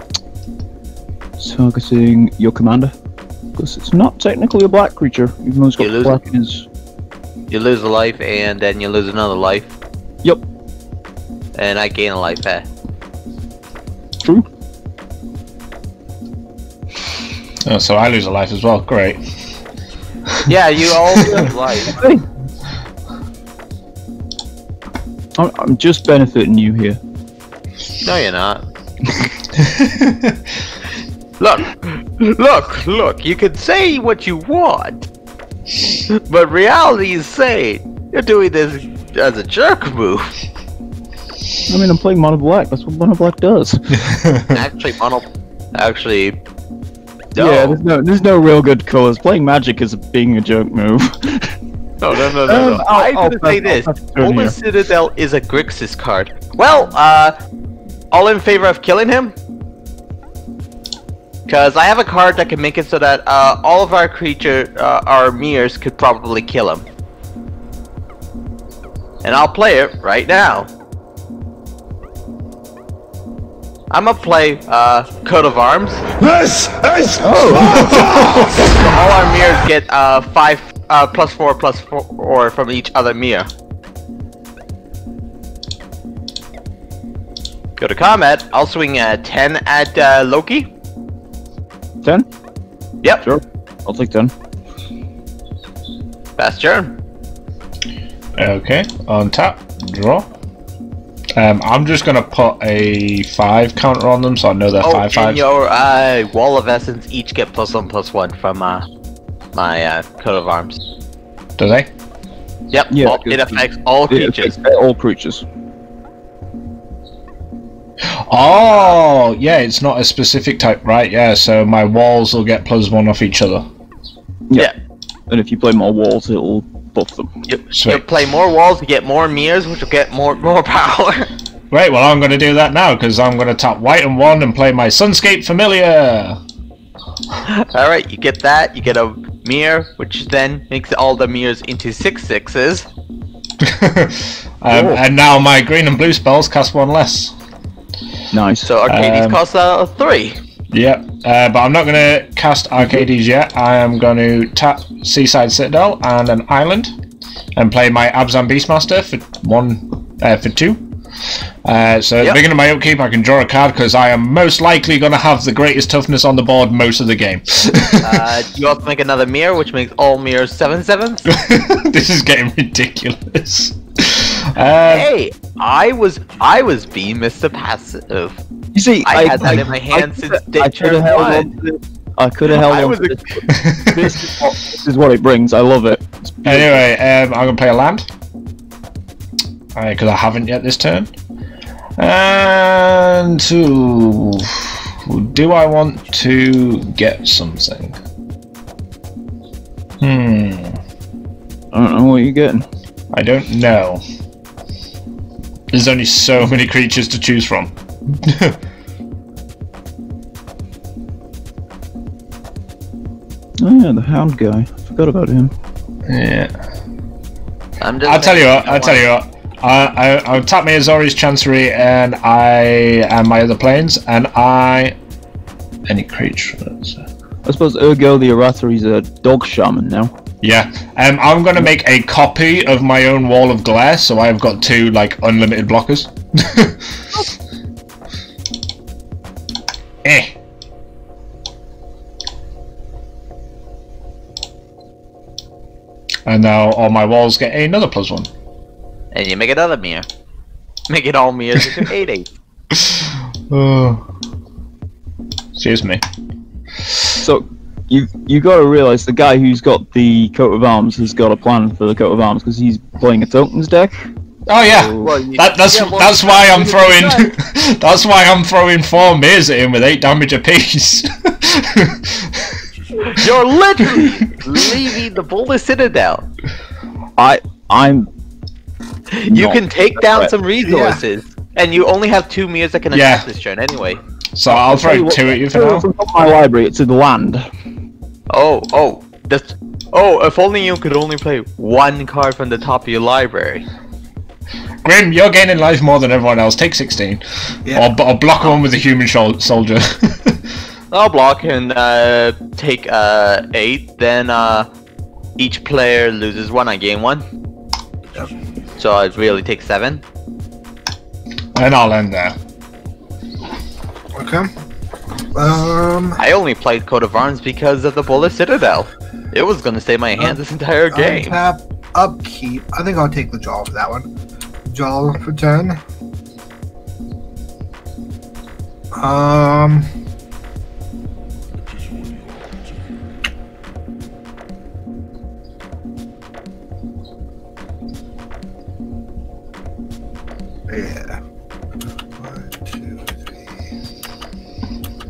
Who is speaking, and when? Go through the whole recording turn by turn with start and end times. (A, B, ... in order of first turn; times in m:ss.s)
0:01.4-0:02.9 A
0:03.6-0:06.7 A
0:05.8-0:06.2 B
0:07.5-0:09.7 B
0:11.6-0:12.7 B
0:17.6-0:19.2 C
0:20.5-0:22.1 B
0:21.2-0:22.2 A
0:25.4-0:27.0 A
0:28.0-0:28.6 B
0:29.6-0:30.3 C
0:31.4-0:35.0 B
0:36.1-0:40.4 B
0:41.7-0:44.1 A
0:44.0-0:44.6 C
0:44.5-0:46.4 B
0:47.4-0:51.6 A
0:47.4-0:47.8 B
0:52.0-0:57.4 B
0:52.3-0:54.6 A
0:58.1-0:59.4 B
1:01.5-1:06.9 B
1:09.2-1:10.7 B
1:13.9-1:16.1 B
1:16.2-1:18.0 D
1:17.1-1:18.2 A
1:18.5-1:23.5 B
1:27.8-1:30.7 B
1:33.2-1:34.3 A
1:36.4-1:37.0 B
1:38.4-1:40.3 C
1:41.4-1:45.4 C
1:44.8-1:48.9 B
1:49.5-1:50.8 B
1:51.6-1:51.9 C
1:52.7-1:54.6 B
1:52.9-1:55.4 A
1:58.3-2:03.7 C
1:58.7-1:59.0 B
2:05.3-2:07.3 A
2:07.5-2:11.3 B
2:07.7-2:08.0 C
2:11.7-2:16.4 C
2:17.5-2:22.9 B
2:23.6-2:27.4 C
2:24.7-2:25.0 A
2:28.3-2:28.7 A
2:28.7-2:30.4 B
2:28.9-2:29.4 C
2:30.7-2:36.9 C
2:32.8-2:33.1 A
2:37.6-2:40.8 C
2:41.6-2:48.3 C
2:48.0-2:51.3 B
2:51.3-2:55.1 C
2:54.9-2:58.4 B
2:58.7-3:06.8 A
2:59.0-3:01.5 B
3:02.5-3:03.5 B
3:03.5-3:04.2 C
3:06.5-3:08.1 C
3:09.8-3:11.1 C
3:12.0-3:18.0 C
3:20.0-3:20.8 C
3:21.7-3:22.7 A
3:23.1-3:24.0 C
3:25.7-3:27.7 C
3:28.2-3:28.6 C
3:33.6-3:35.5 A
3:36.1-3:36.5 C
3:37.8-3:39.1 B
3:38.0-3:45.0 C
3:45.9-3:47.0 C
3:47.4-3:50.1 A
3:50.4-3:57.2 C
4:00.0-4:00.3 C
4:06.3-4:08.3 C
4:09.1-4:10.1 B
4:10.9-4:12.3 B
4:12.8-4:14.0 C
4:15.6-4:16.0 C
4:17.2-4:24.1 A
4:24.5-4:32.5 C
4:24.6-4:25.1 A
4:25.0-4:27.3 B
4:33.0-4:36.3 B
4:37.2-4:38.1 A
4:39.1-4:44.0 B
4:39.3-4:40.3 A
4:40.6-4:41.0 D
4:42.9-4:43.3 C
4:44.3-4:45.9 C
4:44.5-4:47.5 A
4:48.3-4:53.6 B
4:54.8-5:00.4 C
4:57.6-4:57.9 D
5:00.9-5:04.7 B
5:05.4-5:07.3 B
5:08.8-5:10.0 B
5:11.6-5:12.4 C
5:14.1-5:14.5 D
5:15.3-5:16.2 D
5:16.2-5:21.4 B
5:20.9-5:24.1 D
5:24.6-5:25.8 D
5:28.9-5:29.9 D
5:40.7-5:41.2 D
5:42.2-5:43.7 D